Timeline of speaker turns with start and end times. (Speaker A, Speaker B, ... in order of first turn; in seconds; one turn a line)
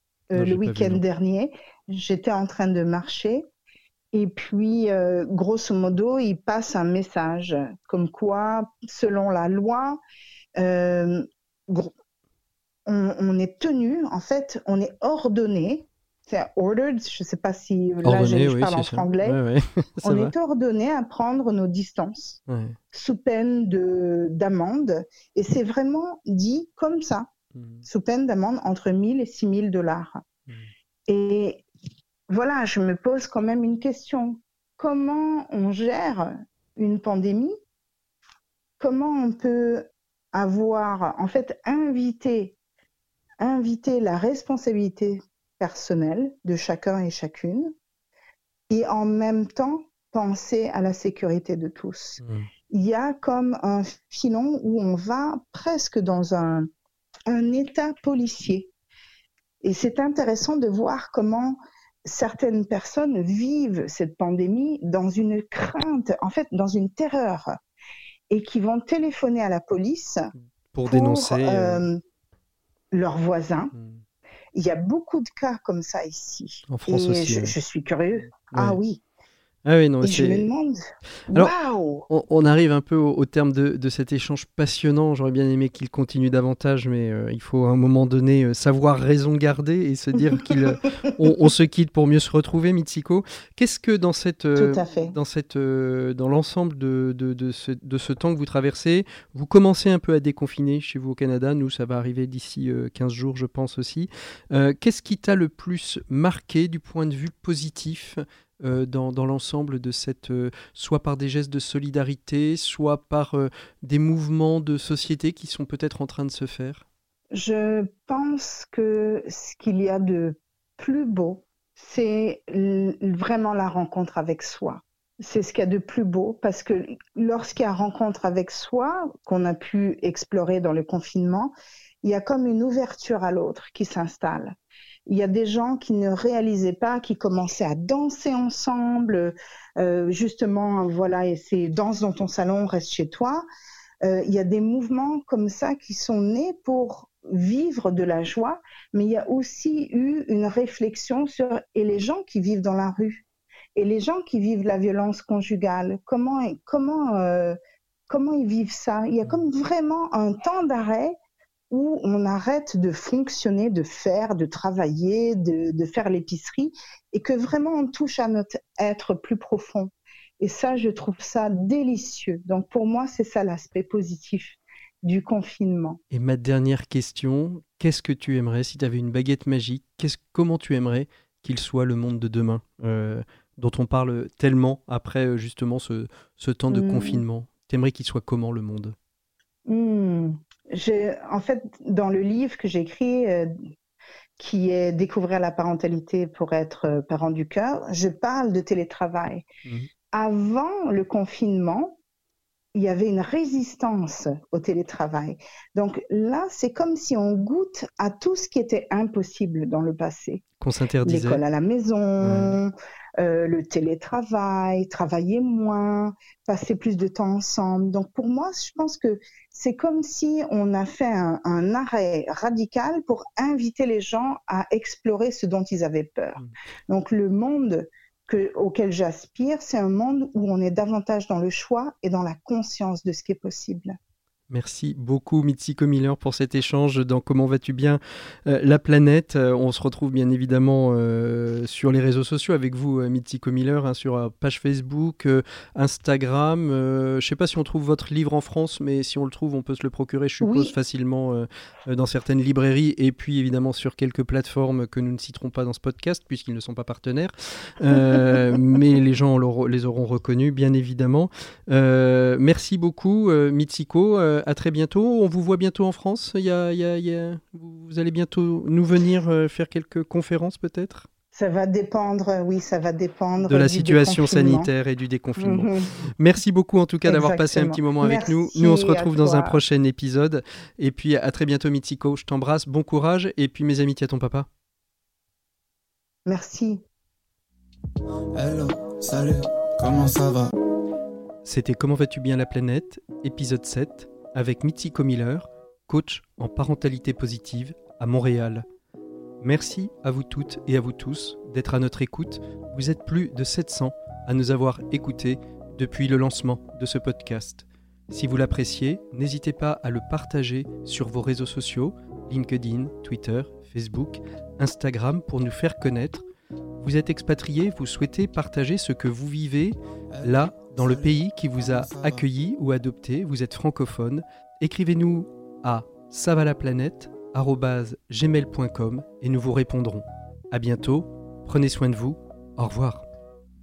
Speaker A: 0.3-3.5
Speaker B: 0.3-1.0
Speaker A: 4.1-10.0
Speaker A: 10.6-11.9
Speaker A: 12.9-19.4
Speaker B: 18.0-20.3
Speaker A: 20.0-22.4
Speaker B: 22.5-22.8
Speaker A: 22.9-27.3
Speaker B: 27.6-27.8
Speaker A: 27.8-30.2
Speaker A: 31.1-31.6
Speaker A: 32.3-37.6
Speaker A: 38.8-42.5
Speaker A: 43.4-47.7
Speaker A: 48.7-56.7
Speaker B: 52.2-52.5
Speaker A: 57.3-58.7
Speaker A: 59.6-67.5
Speaker A: 68.3-70.3
Speaker B: 70.7-71.9
Speaker A: 70.9-72.0
Speaker A: 72.9-73.7
Speaker B: 73.7-74.0
Speaker A: 74.5-79.0
Speaker B: 76.7-77.5
Speaker B: 78.5-78.8
Speaker B: 79.6-80.5
Speaker A: 80.0-82.1
Speaker B: 82.1-116.8
Speaker A: 94.5-95.1
Speaker A: 117.3-134.6
Speaker A: 135.1-143.4
Speaker A: 144.0-153.2
Speaker A: 153.8-157.6
Speaker A: 158.1-161.2
Speaker A: 161.7-176.0
Speaker B: 176.1-188.9
Speaker A: 186.7-187.2
Speaker A: 189.7-193.7
Speaker A: 194.4-199.5
Speaker A: 200.1-202.0
Speaker A: 202.7-210.4
Speaker B: 210.6-211.4
Speaker A: 211.0-234.0
Speaker B: 212.2-212.6
Speaker B: 234.5-271.1
Speaker A: 250.4-250.7
Speaker A: 258.0-258.4
Speaker A: 271.3-274.7
Speaker B: 273.4-284.5
Speaker A: 275.4-275.9
Speaker A: 277.0-279.6
Speaker A: 286.2-286.8
Speaker C: 288.3-290.5
Speaker B: 291.4-298.6
Speaker B: 299.4-316.2
Speaker B: 316.8-333.1
Speaker C: 320.1-322.2